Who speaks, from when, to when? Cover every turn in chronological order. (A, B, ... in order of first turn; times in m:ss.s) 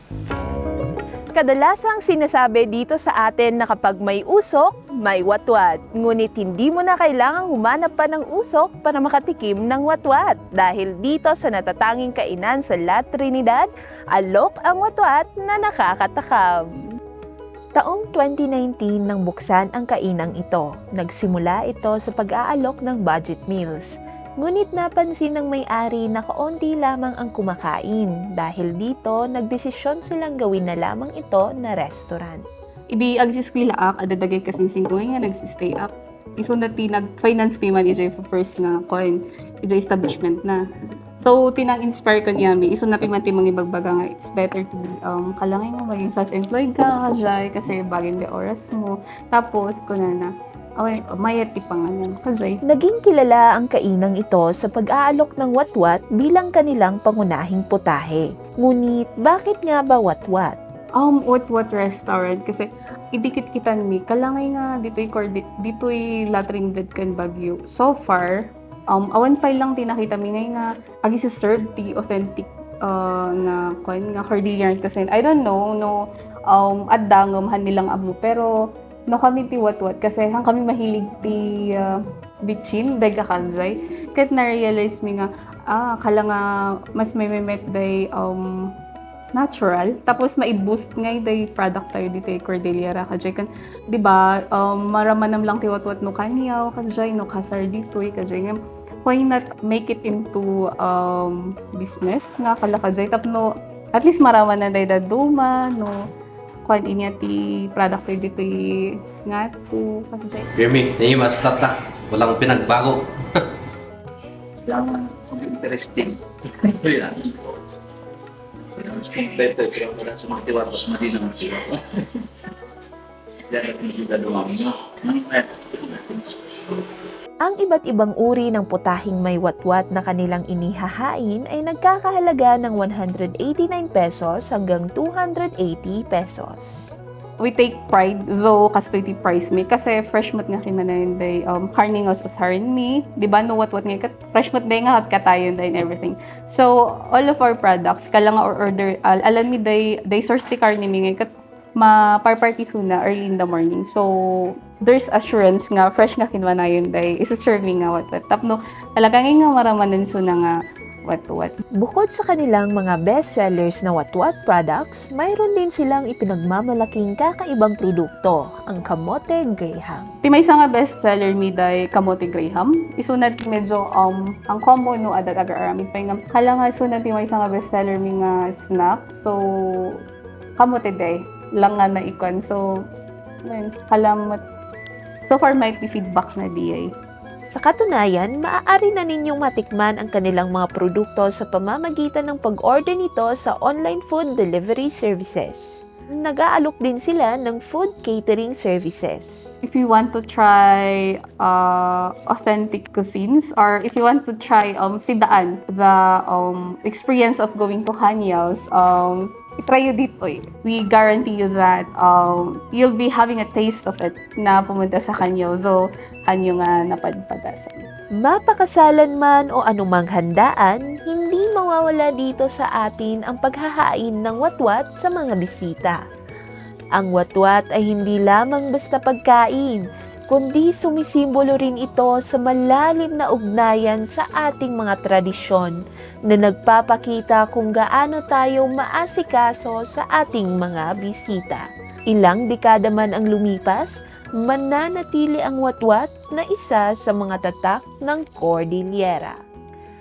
0:01.4-0:16.6 A
0:17.8-0:32.4 A
0:32.9-0:40.6 B
0:41.2-0:52.6 B
0:52.7-1:00.6 A
1:01.0-1:16.0 B
1:16.5-1:18.5 B
1:19.1-1:26.4 B
1:27.0-1:28.5 B
1:29.4-1:46.0 B
1:46.6-1:50.5 B
1:50.6-1:53.0 C
1:55.4-1:56.1 D
1:58.9-2:01.7 D
2:03.5-2:04.7 D
2:07.4-2:17.0 A
2:17.4-2:40.5 B
2:41.1-2:41.5 B
2:41.8-2:50.1 A
2:50.2-3:00.0 B
3:00.6-3:02.6 B
3:03.5-3:04.4 B
3:05.2-3:06.9 B
3:07.5-3:19.5 A
3:19.6-3:37.8 B
3:38.2-3:46.0 A
3:47.0-3:55.7 A
3:56.3-4:09.4 A